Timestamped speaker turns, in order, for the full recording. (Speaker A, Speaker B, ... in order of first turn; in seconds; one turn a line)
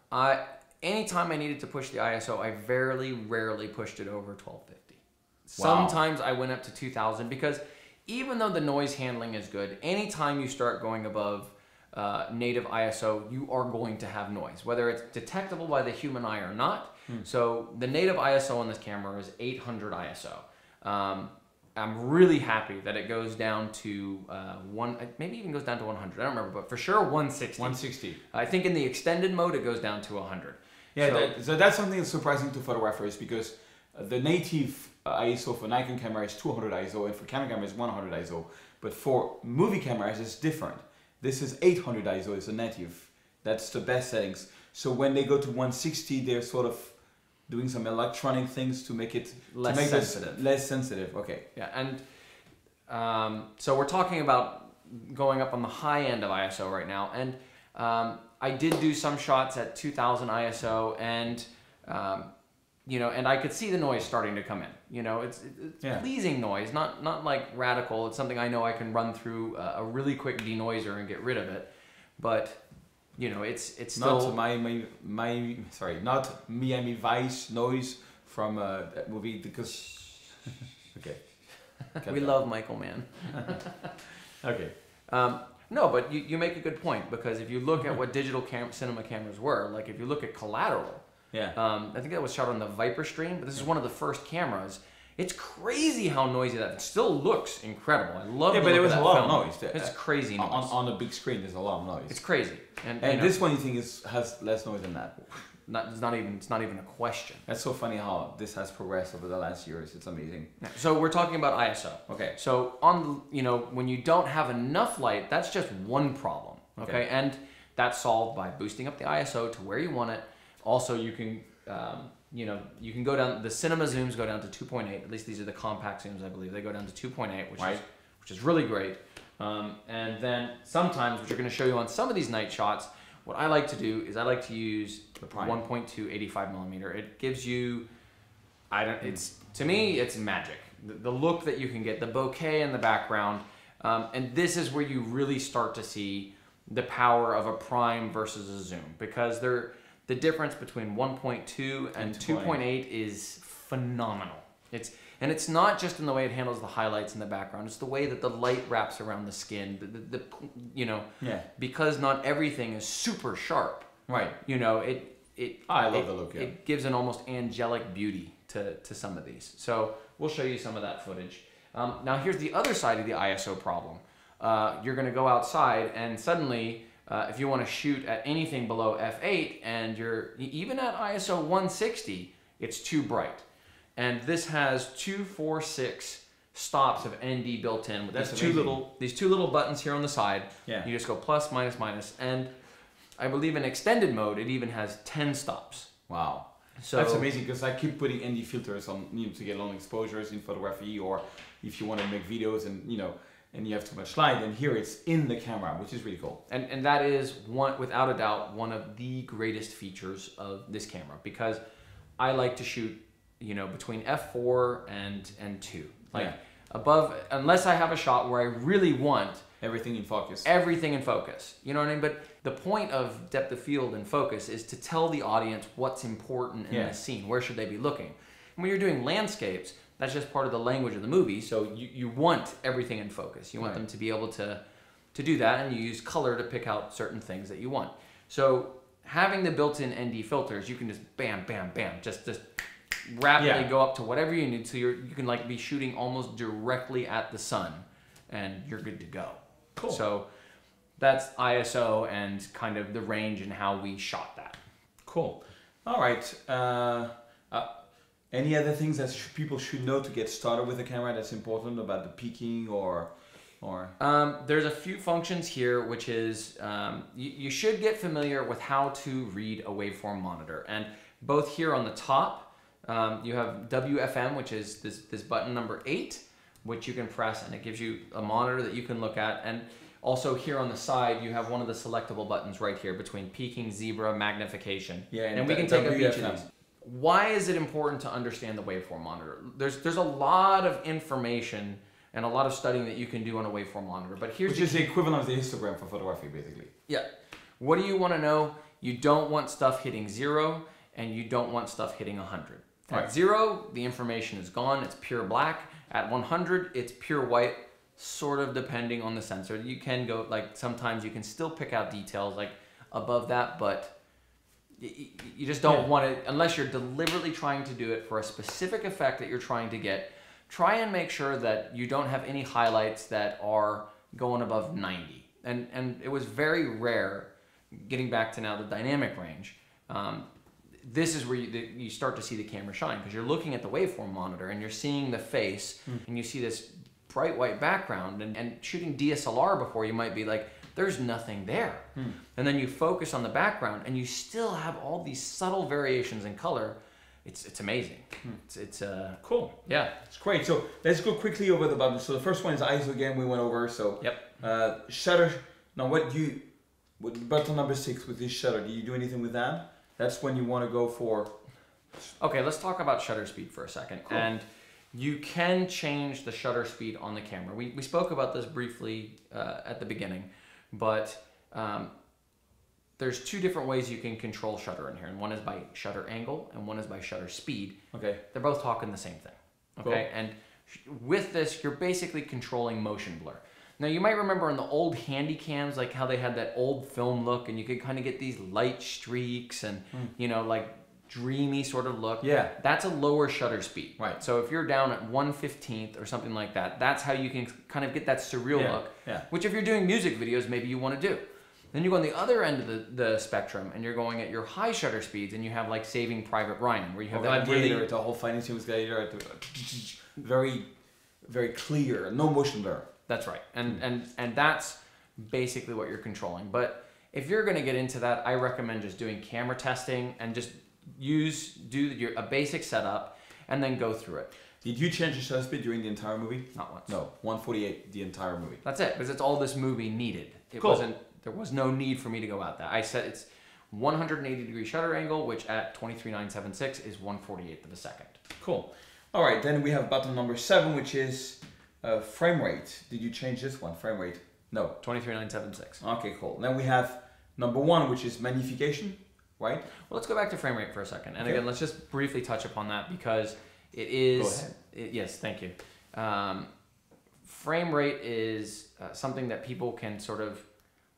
Speaker A: 0.1-27.8
Speaker B: 5.6-6.0
Speaker B: 27.6-28.2
Speaker A: 28.3-31.3
Speaker B: 30.9-47.0
Speaker B: 47.5-51.4
Speaker A: 49.5-50.4
Speaker A: 51.5-52.0
Speaker A: 52.9-62.3
Speaker A: 62.9-72.6
Speaker A: 73.2-74.3
Speaker B: 74.0-81.3
Speaker B: 82.0-82.3
Speaker A: 82.0-83.9
Speaker B: 84.4-84.7
Speaker A: 85.1-91.0
Speaker A: 91.5-100.7
Speaker B: 98.5-102.2
Speaker A: 102.1-103.4
Speaker B: 103.0-105.2
Speaker A: 105.3-107.4
Speaker B: 107.5-110.5
Speaker A: 110.6-137.8
Speaker B: 112.1-112.3
Speaker B: 116.8-117.0
Speaker B: 135.2-135.6
Speaker A: 138.7-163.9
Speaker B: 152.0-152.6
Speaker B: 164.1-164.3
Speaker A: 164.4-183.4
Speaker B: 165.7-166.5
Speaker A: 184.0-192.5
Speaker B: 188.1-188.8
Speaker A: 193.2-195.9
Speaker B: 196.1-206.4
Speaker A: 196.8-197.2
Speaker A: 206.5-211.6
Speaker A: 212.2-219.4
Speaker B: 219.6-220.5
Speaker A: 220.4-234.6
Speaker A: 235.1-242.4
Speaker A: 243.0-250.2
Speaker B: 243.4-243.7
Speaker A: 251.0-254.6
Speaker B: 255.1-257.7
Speaker B: 258.3-263.9
Speaker A: 264.0-294.9
Speaker B: 285.1-286.4
Speaker B: 294.4-296.7
Speaker A: 297.6-313.9
Speaker A: 314.8-330.3
Speaker A: 330.8-349.9
Speaker B: 349.2-349.5
Speaker B: 350.1-356.4
Speaker A: 354.0-354.3
Speaker B: 357.0-361.3
Speaker A: 362.2-371.9
Speaker A: 373.0-377.8
Speaker B: 377.9-378.2
Speaker A: 378.3-407.9
Speaker B: 392.2-392.5
Speaker B: 398.5-399.2
Speaker B: 407.1-410.7
Speaker B: 411.2-412.9
Speaker A: 413.1-424.3
Speaker B: 424.6-428.6
Speaker A: 426.5-426.9
Speaker A: 428.6-438.2
Speaker B: 430.6-430.8
Speaker B: 438.4-444.8
Speaker A: 444.8-445.8
Speaker B: 445.8-449.7
Speaker A: 449.8-456.5
Speaker B: 454.1-454.5
Speaker A: 457.2-460.4